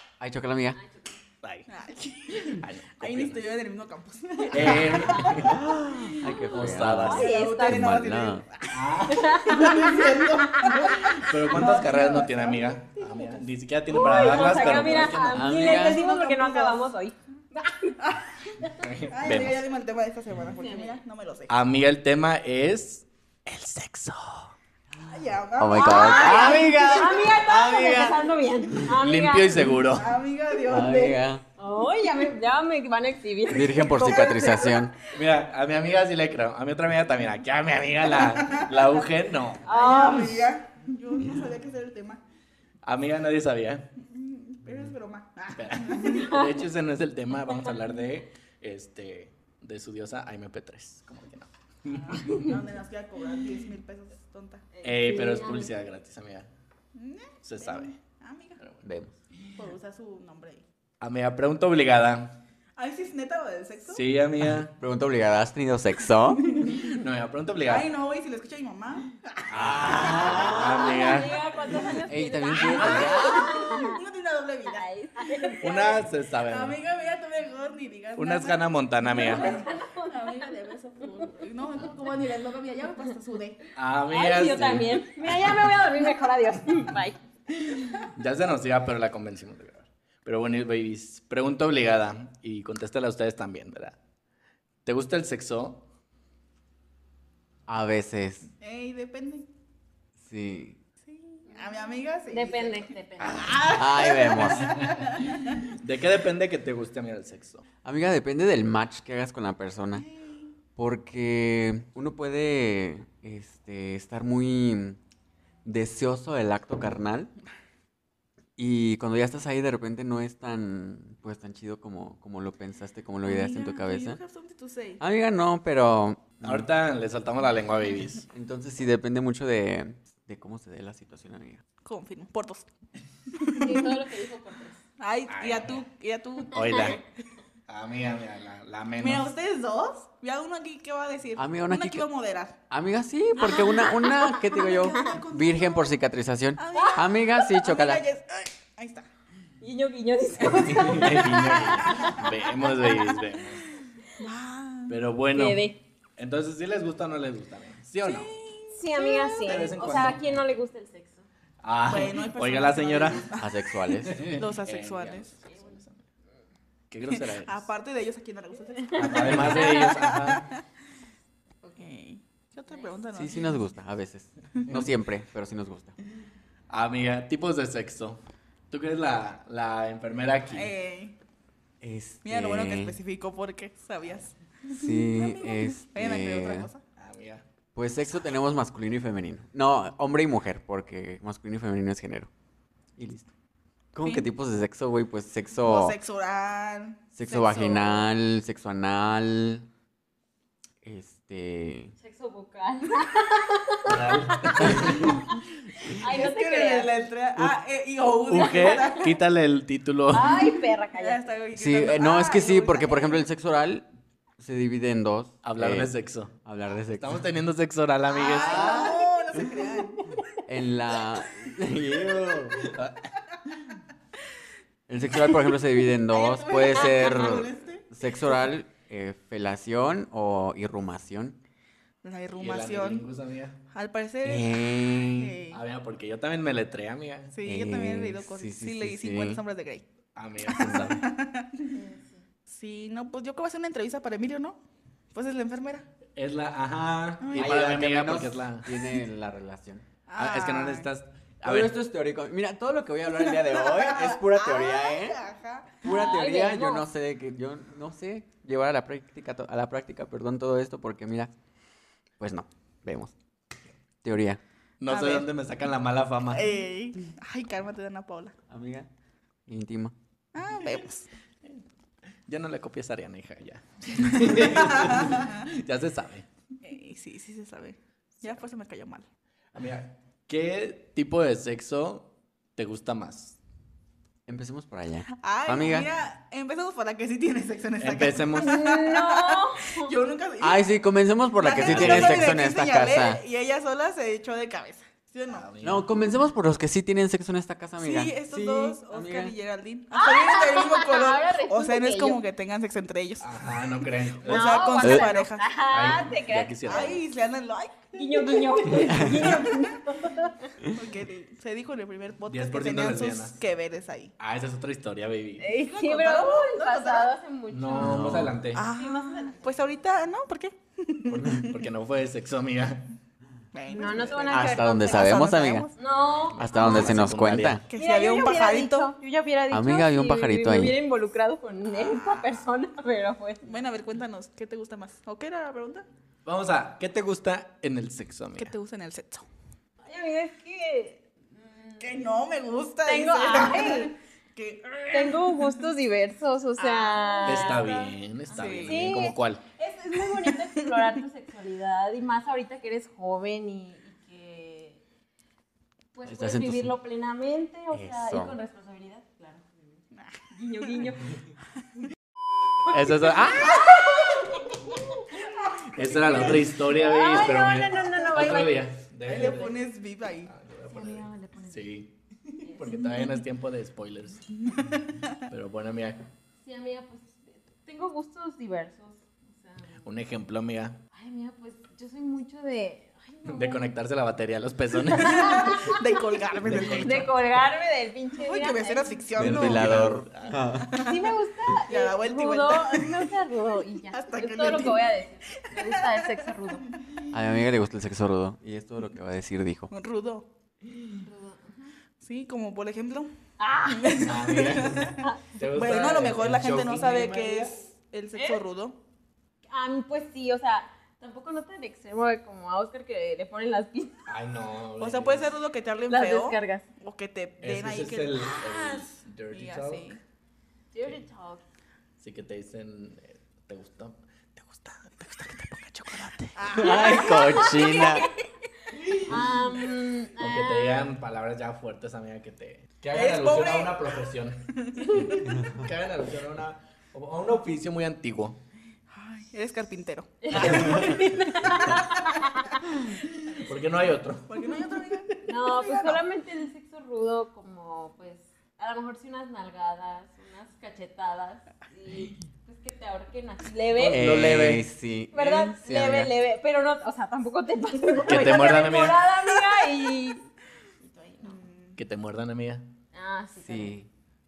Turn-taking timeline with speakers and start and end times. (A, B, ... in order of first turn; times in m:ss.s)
0:00.2-0:00.8 A
0:00.7-0:01.2 B
0:01.7-0:05.6 C
0:02.4-0:03.5 D
0:04.5-0:05.6 D
0:04.9-0:07.9 B
0:05.3-0:08.4 A
0:06.5-0:07.3 D
0:07.0-0:15.0 C
0:08.7-0:15.5 D
0:09.1-0:10.9 B
0:13.9-0:18.0 B
0:15.3-0:16.0 A
0:15.5-0:16.8 C
0:18.0-0:18.6 C
0:18.7-0:19.7 D
0:19.1-0:21.5 C
0:20.6-0:21.0 B
0:21.5-0:24.5 D
0:25.0-0:27.3 C
0:25.6-0:28.8 A
0:25.7-0:29.7 B
0:28.9-0:30.2 D
0:29.9-0:31.2 C
0:30.6-0:31.4 A
0:31.6-0:34.8 B
0:33.5-0:34.9 A
0:33.9-0:34.8 C
0:35.1-0:39.6 D
0:38.2-0:38.7 C
0:39.6-0:40.4 B
0:39.7-0:42.2 C
0:42.8-0:43.9 D
0:44.0-0:46.4 C
0:45.5-0:52.6 D
0:46.1-0:46.4 B
0:51.9-0:54.7 C
0:54.7-0:55.7 B
0:54.8-0:56.5 D
0:56.9-0:58.6 C
0:57.4-0:57.9 D
0:58.6-0:59.5 D
0:59.6-1:00.6 C
1:01.0-1:02.3 D
1:02.8-1:04.0 C
1:03.9-1:04.7 D
1:04.6-1:06.8 A
1:06.3-1:07.0 C
1:06.9-1:07.9 D
1:07.7-1:11.0 C
1:09.5-1:11.4 D
1:09.5-1:10.8 A
1:10.1-1:14.0 B
1:11.7-1:12.0 C
1:12.0-1:13.6 A
1:12.6-1:14.8 C
1:12.8-1:13.1 D
1:14.7-1:15.9 B
1:15.4-1:23.6 C
1:15.6-1:16.8 D
1:18.2-1:19.6 D
1:19.1-1:20.6 B
1:23.8-1:26.0 D
1:24.1-1:27.2 B
1:27.7-1:34.0 D
1:34.8-1:35.8 D
1:37.7-1:38.5 A
1:38.6-1:39.5 C
1:40.2-1:40.8 A
1:41.0-1:45.6 C
1:41.5-1:43.6 B
1:43.2-1:43.6 D
1:43.7-1:44.9 A
1:44.5-1:47.6 D
1:47.8-1:50.1 A
1:49.9-1:50.5 C
1:50.8-1:55.0 A
1:55.6-1:57.3 A
1:58.6-2:04.2 A
2:03.2-2:05.0 C
2:05.0-2:06.7 A
2:06.4-2:08.3 D
2:08.3-2:11.6 A
2:11.8-2:12.7 C
2:13.3-2:13.9 C
2:13.5-2:14.8 B
2:15.0-2:17.0 C
2:15.3-2:15.8 D
2:16.5-2:17.0 D
2:17.7-2:19.3 D
2:19.0-2:22.6 C
2:21.4-2:22.1 A
2:22.7-2:28.0 A
2:23.4-2:25.9 C
2:23.4-2:24.5 B
2:26.6-2:29.1 C
2:26.7-2:27.0 B
2:29.6-2:33.2 B
2:30.4-2:33.7 D
2:31.8-2:33.1 C
2:34.2-2:35.0 C
2:34.9-2:38.3 D
2:35.3-2:35.8 B
2:38.0-2:39.7 C
2:38.7-2:41.2 B
2:39.4-2:40.3 D
2:41.6-2:43.3 D
2:41.9-2:43.5 C
2:43.4-2:44.3 A
2:44.0-2:46.0 D
2:44.1-2:45.3 C
2:45.5-2:45.8 B
2:46.9-2:47.7 D
2:47.1-2:50.6 C
2:48.9-2:50.5 D
2:49.4-2:49.8 B
2:51.6-2:51.9 B
2:51.8-2:53.5 C
2:52.7-2:53.0 B
2:53.1-2:56.0 A
2:56.7-2:58.2 D
2:58.7-3:00.7 D
3:00.5-3:01.2 C
3:01.8-3:03.0 A
3:02.2-3:06.8 C
3:04.7-3:06.7 A
3:07.0-3:07.4 D
3:07.7-3:12.3 A
3:13.0-3:13.3 A
3:13.9-3:16.0 A
3:14.0-3:14.3 C
3:15.6-3:18.1 C
3:17.2-3:19.7 A
3:20.8-3:21.9 A
3:22.0-3:26.9 B
3:23.8-3:25.2 D
3:24.6-3:25.1 A
3:25.9-3:29.2 C
3:28.3-3:30.4 D
3:28.4-3:29.0 B
3:30.1-3:31.2 B
3:30.9-3:33.2 C
3:31.5-3:33.8 A
3:34.4-3:35.9 A
3:35.4-3:36.3 D
3:36.4-3:37.2 A
3:37.0-3:38.9 D
3:38.1-3:40.2 C
3:38.3-3:39.5 A
3:40.4-3:42.7 A
3:42.7-3:43.1 D
3:44.9-3:51.4 A
3:45.0-3:48.4 C
3:52.0-3:53.1 C
3:52.4-3:53.6 D
3:53.7-3:55.6 C
3:54.2-3:55.4 A
3:55.5-3:57.4 D
3:57.3-3:59.8 C
3:57.4-3:59.4 A
4:00.2-4:01.0 D
4:00.4-4:01.7 C
4:00.6-4:00.9 A
4:01.7-4:02.2 B
4:02.5-4:04.6 C
4:05.1-4:05.9 C
4:06.2-4:08.7 D
4:07.2-4:07.5 C
4:07.3-4:09.8 A
4:10.1-4:10.9 C
4:10.2-4:11.8 D
4:11.4-4:15.2 A
4:13.2-4:15.8 C
4:15.8-4:21.3 A
4:15.8-4:16.8 B
4:22.2-4:23.1 A
4:24.0-4:24.4 A
4:24.8-4:26.5 D
4:24.9-4:25.3 C
4:26.3-4:28.3 C
4:28.5-4:28.9 A
4:29.5-4:29.9 A
4:30.3-4:31.1 C
4:32.3-4:36.3 D
4:34.2-4:35.4 C
4:36.6-4:39.0 C
4:39.5-4:43.4 D
4:44.3-4:45.9 A
4:45.2-4:50.6 C
4:47.8-4:48.6 D
4:48.4-4:49.9 B
4:50.4-4:53.2 A
4:51.4-4:55.4 C
4:51.6-4:52.3 D
4:55.2-4:55.9 D
4:55.6-4:59.4 A
4:57.8-5:03.7 C
4:59.9-5:02.2 B
5:03.2-5:04.7 D
5:04.2-5:05.4 C
5:04.2-5:06.6 B
5:04.8-5:05.0 A
5:05.7-5:07.0 D
5:06.6-5:09.8 C
5:07.9-5:10.5 B
5:08.8-5:09.3 A
5:10.7-5:14.1 C
5:12.3-5:13.4 D
5:14.2-5:15.5 D
5:15.4-5:19.6 B
5:15.5-5:17.1 C
5:17.5-5:18.7 D
5:17.8-5:18.4 A
5:18.5-5:21.6 C
5:21.1-5:22.9 D
5:23.5-5:25.7 C
5:23.7-5:27.0 B
5:24.2-5:25.7 A
5:26.3-5:27.6 D
5:26.4-5:27.6 A
5:27.7-5:28.9 C
5:27.7-5:33.5 B
5:29.5-5:30.8 A
5:31.7-5:32.4 C
5:33.4-5:35.8 C
5:36.2-5:38.5 D
5:38.4-5:39.2 C
5:39.8-5:42.0 B
5:41.8-5:45.6 C
5:42.8-5:43.9 B
5:44.9-5:54.8 B
5:46.6-5:48.9 C
5:47.2-5:49.4 D
5:50.0-5:51.0 C
5:55.9-6:01.2 B
5:56.0-5:56.7 A
5:57.7-5:58.4 A
6:02.7-6:04.2 D
6:03.5-6:04.3 B
6:05.0-6:08.7 B
6:05.7-6:09.7 D
6:05.7-6:06.4 C
6:09.0-6:10.3 C
6:10.3-6:11.9 D
6:10.7-6:11.7 B
6:12.4-6:13.2 B
6:12.5-6:14.5 D
6:14.4-6:15.1 C
6:15.3-6:16.1 D
6:16.4-6:19.8 B
6:19.8-6:20.8 D
6:20.9-6:23.7 B
6:23.2-6:25.6 D
6:24.9-6:25.8 B
6:25.0-6:27.1 C
6:26.4-6:27.0 D
6:26.6-6:29.3 B
6:28.1-6:29.9 C
6:29.2-6:30.8 A
6:29.2-6:30.4 D
6:30.5-6:31.1 C
6:30.7-6:36.7 B
6:31.6-6:33.1 C
6:33.9-6:37.0 C
6:37.1-6:39.7 A
6:39.7-6:40.3 C
6:41.0-6:41.7 B
6:42.0-6:43.1 C
6:43.4-6:45.4 B
6:43.7-6:48.8 C
6:44.0-6:47.6 D
6:48.1-6:48.4 B
6:49.5-6:54.0 B
6:54.1-6:55.3 D
6:54.8-7:00.0 C
6:55.9-6:56.6 B
6:57.4-6:59.9 D
7:00.7-7:01.4 B
7:02.0-7:06.8 D
7:06.4-7:08.1 C
7:06.5-7:08.1 A
7:07.0-7:07.9 B
7:08.9-7:09.2 D
7:08.9-7:10.9 B
7:10.2-7:18.4 D
7:12.9-7:13.9 C
7:14.5-7:15.4 C
7:18.9-7:22.2 C
7:20.2-7:22.6 B
7:20.3-7:21.6 D
7:23.3-7:24.9 D
7:24.3-7:26.0 C
7:25.2-7:34.2 B
7:33.7-7:34.7 D
7:33.8-7:36.1 A
7:35.1-7:40.3 B
7:38.0-7:39.0 D
7:40.8-7:41.4 B
7:41.2-7:41.8 C
7:41.8-7:42.7 D
7:42.9-7:43.7 B
7:43.4-7:43.9 A